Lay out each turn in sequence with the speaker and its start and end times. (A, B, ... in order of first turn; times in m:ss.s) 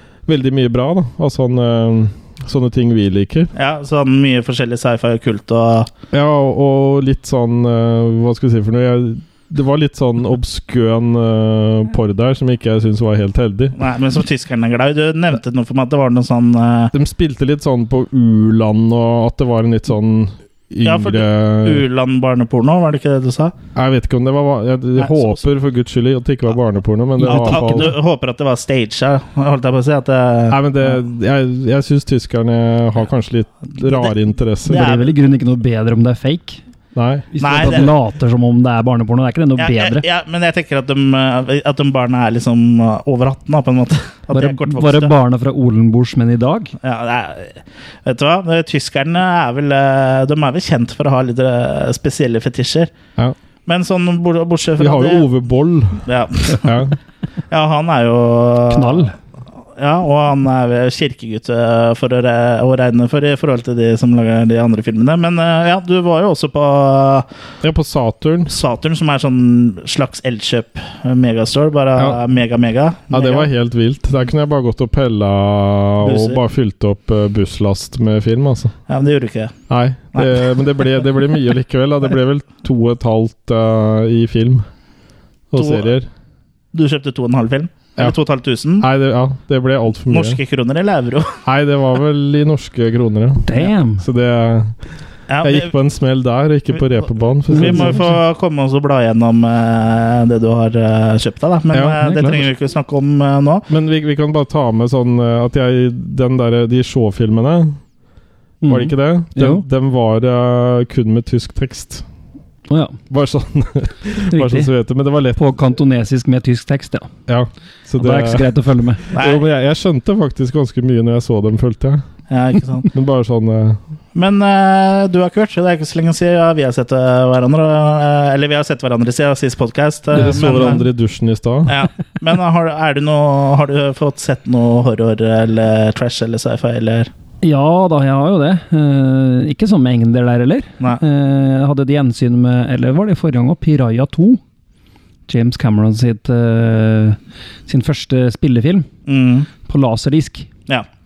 0:00.2-0:03.5 A
0:03.6-0:05.9 B
0:06.1-0:13.8 A
0:13.8-0:16.9 B
0:16.9-0:21.8 A
0:20.8-0:23.5 B
0:23.8-0:27.9 A
0:25.0-0:25.4 B
0:27.2-0:27.9 C
0:27.2-0:31.0 B
0:30.5-0:34.9 A
0:33.7-0:34.1 B
0:34.7-0:35.2 B
0:34.7-0:36.6 C
0:37.0-0:37.3 A
0:37.3-0:40.0 C
0:37.4-0:37.9 B
0:39.6-0:45.1 B
0:44.3-0:46.7 C
0:46.8-0:52.9 B
0:53.7-0:55.3 B
0:54.8-0:56.0 A
0:56.0-0:56.9 B
0:56.6-0:57.0 A
0:57.5-0:59.1 B
0:58.7-0:59.2 C
0:59.8-1:07.3 B
1:07.6-1:08.5 A
1:08.5-1:13.5 B
1:12.0-1:12.2 A
1:13.1-1:18.8 A
1:16.0-1:16.4 B
1:18.9-1:19.6 B
1:19.7-1:24.7 A
1:20.1-1:20.5 B
1:25.5-1:26.1 A
1:25.5-1:25.9 B
1:26.7-1:28.9 B
1:28.8-1:30.4 A
1:30.1-1:31.4 B
1:31.4-1:34.8 A
1:33.4-1:34.0 C
1:35.3-1:35.7 B
1:35.4-1:38.1 A
1:36.8-1:43.7 B
1:37.5-1:38.2 C
1:41.7-1:42.0 A
1:42.0-1:42.4 C
1:43.7-1:47.8 A
1:48.6-1:49.6 C
1:48.7-1:52.0 A
1:52.7-1:53.0 C
1:53.1-1:55.4 A
1:54.3-1:54.7 C
1:55.4-1:57.1 C
1:57.3-1:58.5 A
1:58.0-1:59.1 C
1:59.0-2:02.0 A
1:59.2-1:59.4 B
2:02.3-2:02.9 B
2:02.9-2:03.8 A
2:04.2-2:10.8 B
2:10.1-2:11.8 A
2:11.7-2:17.1 B
2:17.4-2:24.4 C
2:25.3-2:28.9 C
2:29.0-2:29.5 B
2:29.6-2:30.5 C